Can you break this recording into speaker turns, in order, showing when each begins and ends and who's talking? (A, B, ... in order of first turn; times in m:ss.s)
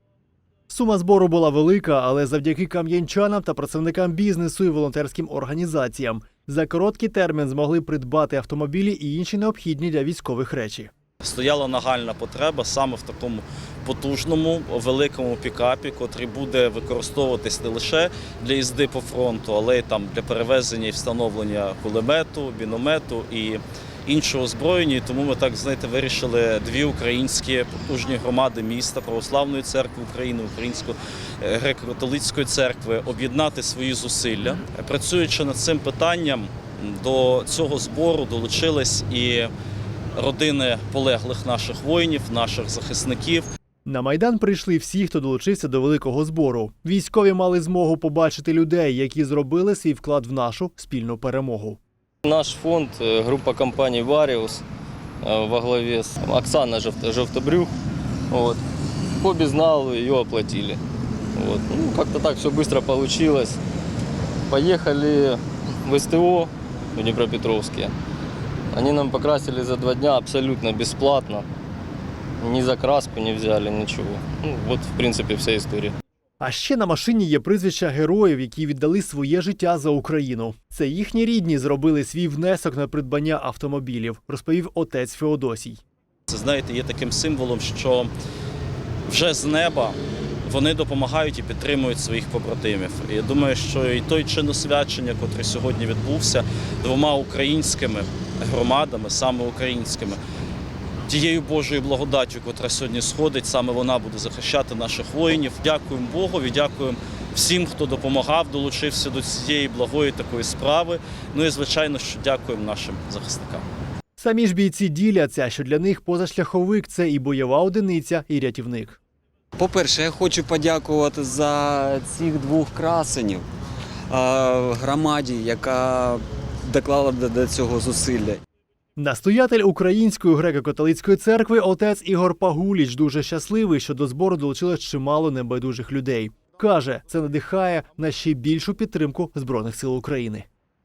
0:00.7-0:10.9 A
0:11.2-0:39.5 B
0:40.2-0:43.5 B
0:43.8-0:51.8 A
0:52.2-0:54.6 C
0:55.2-0:57.7 C
0:58.3-0:58.6 C
0:59.2-1:00.8 C
1:01.4-1:03.6 C
1:04.5-1:07.9 C
1:08.7-1:11.5 C
1:12.4-1:15.9 C
1:16.4-1:25.8 A
1:26.3-1:28.1 B
1:29.1-1:40.2 B
1:41.0-1:53.6 B
1:54.2-1:59.0 A
1:59.6-2:03.4 D
2:04.1-2:08.4 D
2:09.0-2:20.4 A